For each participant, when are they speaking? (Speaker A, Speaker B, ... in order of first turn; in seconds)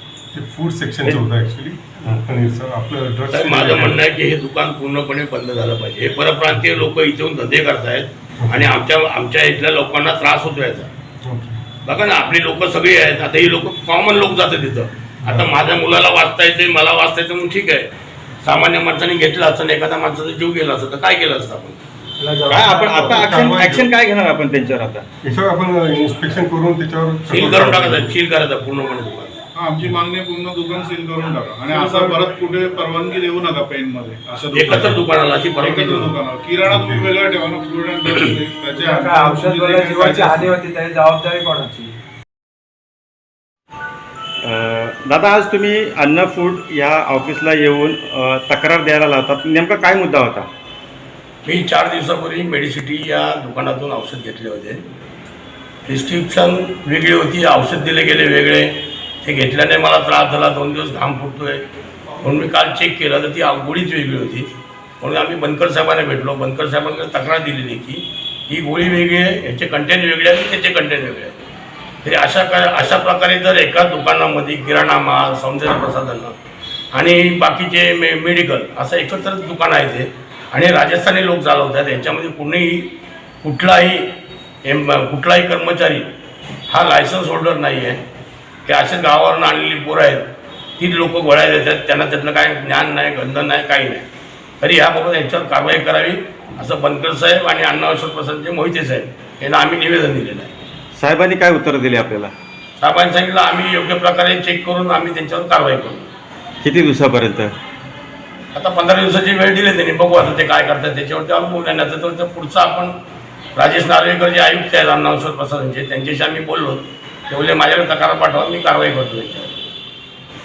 Speaker A: 0.3-4.0, 8.4-8.8, 11.3-11.6, 15.2-15.6, 22.5-23.9, 25.2-28.2, 36.7-37.1
Speaker B: 3.3-10.9, 11.8-17.9, 18.4-21.8, 27.3-29.4, 34.5-36.2, 51.5-54.8, 55.9-61.7, 62.2-64.5, 65.0-71.5, 72.0-76.4, 76.9-84.1, 84.7-86.1, 86.7-88.0, 88.7-90.3, 90.8-94.1, 94.6-100.5, 102.8-106.1, 108.5-113.0, 113.6-119.6
Speaker C: 22.2-23.1, 31.8-32.2, 38.7-42.0
Speaker D: 22.5-25.1, 44.4-50.5, 101.0-102.3, 106.6-107.6
Speaker E: 29.6-35.0, 35.6-40.5